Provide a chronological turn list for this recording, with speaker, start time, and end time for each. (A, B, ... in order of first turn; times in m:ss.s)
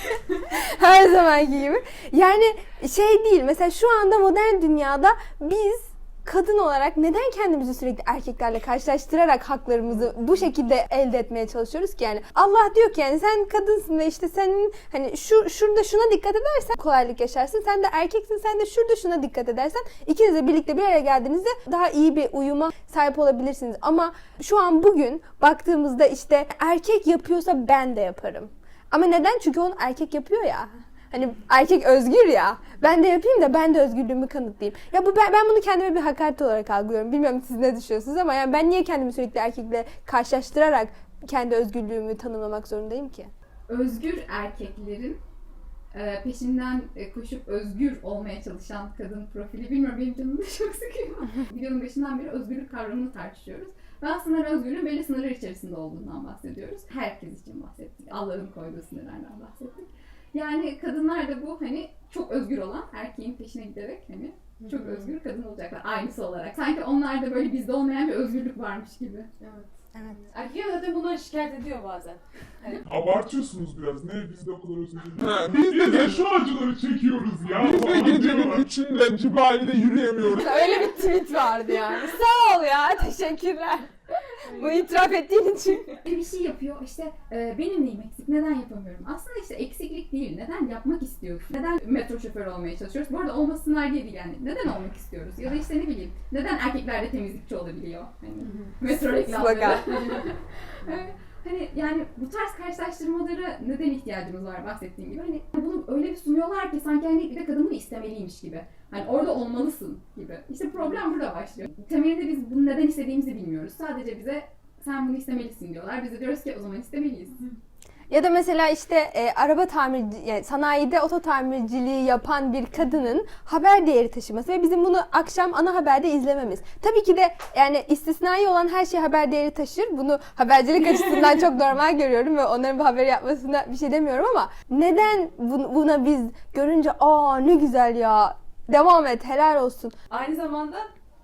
0:00.4-0:43.3 A
0:43.7-0:45.2 B
0:45.9-1:09.3 B
1:09.4-1:09.7 C
1:10.0-1:10.2 A
1:10.2-1:12.8 C
1:12.8-1:18.7 D
1:15.2-1:16.2 E
1:17.6-1:20.6 E
1:20.3-1:26.0 A
1:24.5-1:24.8 C
1:26.0-1:57.4 B
1:38.4-1:38.7 C
1:39.2-1:39.9 A
1:58.1-2:20.0 A
2:20.1-2:20.9 C